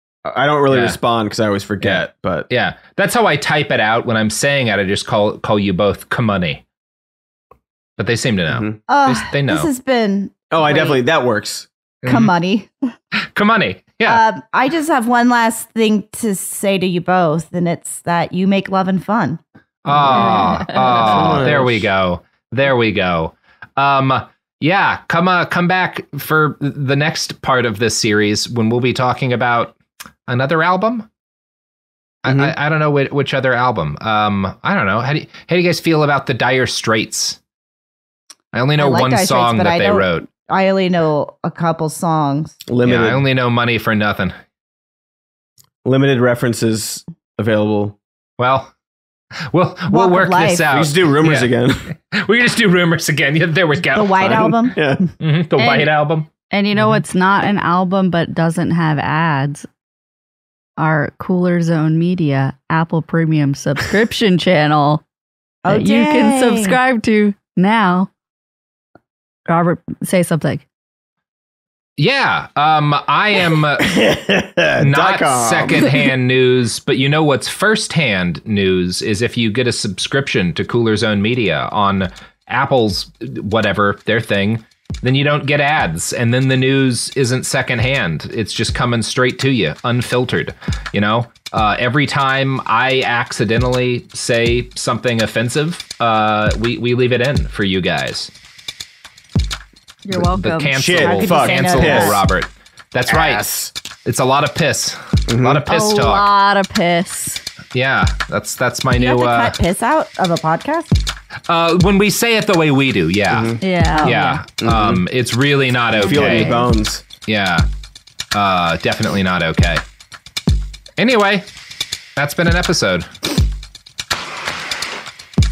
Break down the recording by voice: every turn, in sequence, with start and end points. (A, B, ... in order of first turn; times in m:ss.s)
0:00.2-0:02.5 A
0:00.7-0:01.0 B
0:01.8-0:06.6 B
0:08.0-0:09.7 B
0:08.5-0:08.8 A
0:08.9-0:11.0 C
0:10.5-0:11.7 A
0:12.0-0:12.3 B
0:12.1-0:12.7 C
0:13.3-0:14.2 B
0:14.0-0:19.4 C
0:19.8-0:29.7 B
0:19.9-0:20.4 A
0:20.1-0:21.0 D
0:20.9-0:21.9 A
0:30.3-0:31.1 B
0:32.2-0:37.4 B
0:32.2-0:32.5 A
0:38.5-0:40.3 B
0:38.8-0:42.6 C
0:42.7-0:43.2 A
0:42.8-0:44.3 B
0:45.8-0:48.0 A
0:48.4-0:48.7 B
0:49.5-0:51.5 B
0:49.9-0:50.7 C
0:50.7-0:51.9 A
0:52.1-0:54.6 B
0:53.9-0:55.1 C
0:54.2-0:55.0 A
0:55.2-0:56.3 B
0:56.5-0:59.7 D
1:00.8-1:05.0 D
1:05.6-1:06.8 C
1:05.7-1:08.1 D
1:09.5-1:10.6 D
1:12.0-1:13.9 B
1:13.8-1:16.0 A
1:14.8-1:38.3 B
1:40.0-1:41.0 D
1:40.1-1:43.4 B
1:40.7-1:42.2 A
1:41.0-1:42.2 C
1:43.1-1:43.7 A
1:44.0-1:46.2 B
1:45.3-1:45.6 A
1:45.7-1:47.4 D
1:47.7-1:49.6 B
1:49.0-1:51.0 C
1:51.5-1:56.5 B
1:53.3-1:53.6 A
1:53.6-1:54.4 D
1:54.6-1:55.0 A
1:55.9-1:57.0 A
1:56.0-1:56.7 D
1:57.3-1:57.7 B
1:58.3-1:59.8 B
2:01.0-2:01.5 B
2:02.2-2:03.1 B